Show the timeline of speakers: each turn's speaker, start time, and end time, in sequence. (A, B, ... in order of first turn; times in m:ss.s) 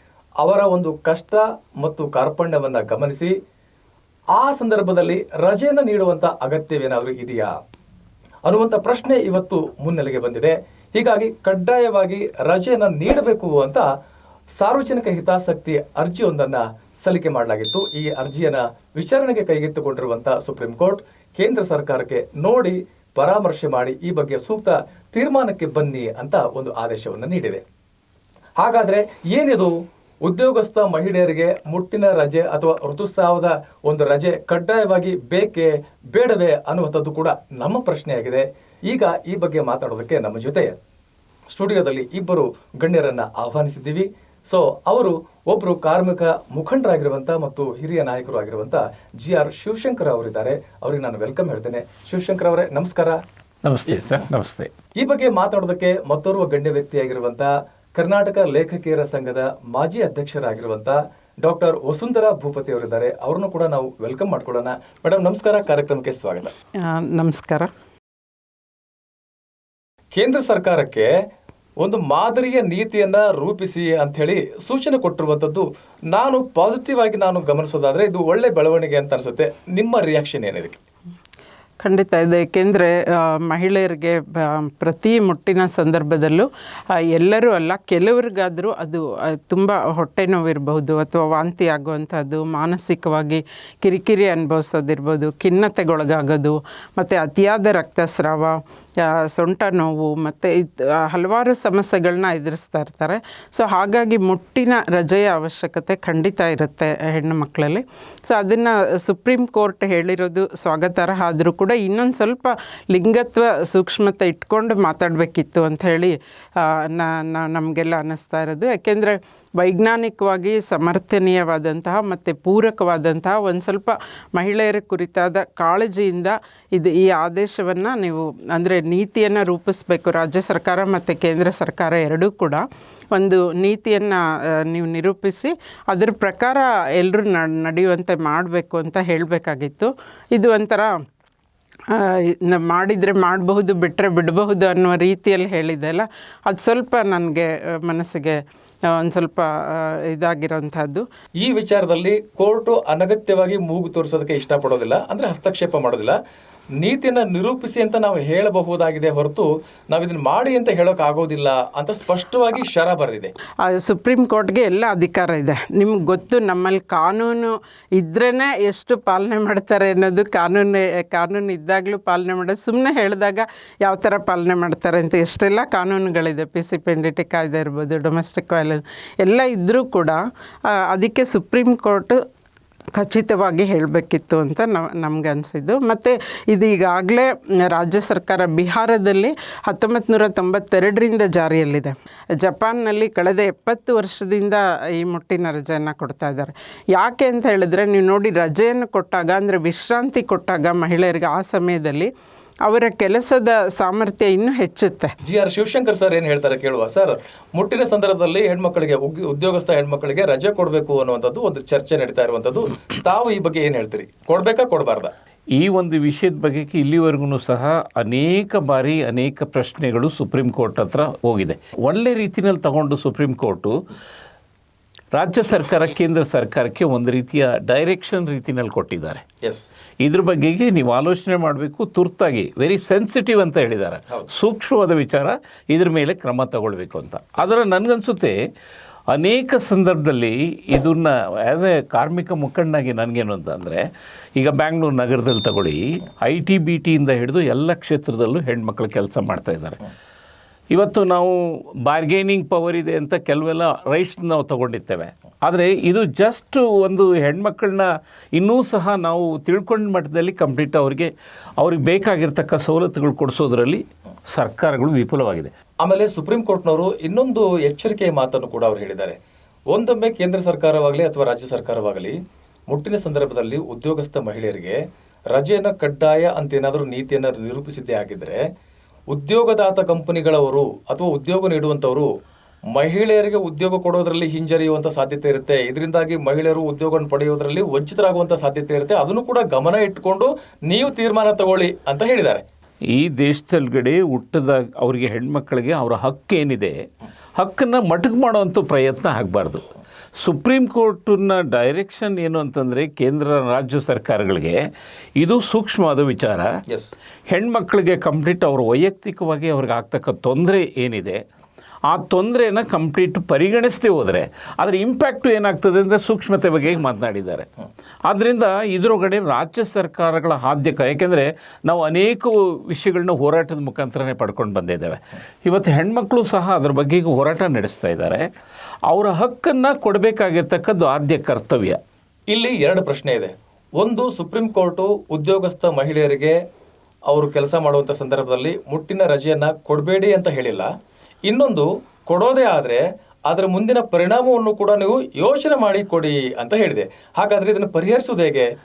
0:00.4-0:03.3 A
0:04.4-0:07.5 A
0:08.4-0:13.8 A
0:14.6-0:27.6 A
0:28.6-0:29.7 A
0:30.2-0:40.7 A
0:41.5-0:53.2 A
0:53.6-0:54.7 B
0:55.0-1:06.5 A
1:06.8-1:07.7 C
1:10.1-1:11.1 A
1:11.8-1:20.8 A
1:21.8-1:26.5 C
1:27.1-2:20.9 C
2:21.9-2:28.4 C
2:28.9-2:31.0 C
2:31.4-2:36.2 A
2:36.8-2:43.3 A
2:43.6-3:00.2 C
3:00.7-3:02.2 C
3:03.0-3:22.1 C
3:22.6-3:25.1 C
3:25.2-3:35.1 A
3:35.6-3:43.8 B
3:45.1-3:49.2 B
3:50.0-3:58.4 B
3:59.1-4:09.8 B
4:10.7-4:25.5 B
4:25.8-4:29.2 A
4:29.7-4:32.1 A
4:32.7-4:34.8 A
4:35.3-4:38.4 A
4:39.1-4:42.1 A
4:42.7-4:52.4 A
4:52.9-4:56.8 B
4:57.4-4:59.6 B
5:00.2-5:04.6 B
5:05.2-5:06.5 B
5:07.3-5:11.2 B
5:11.9-5:17.5 B
5:18.1-5:28.3 B
5:28.9-5:31.8 B
5:32.3-5:36.4 A
5:37.1-5:40.7 A
5:41.2-5:48.5 A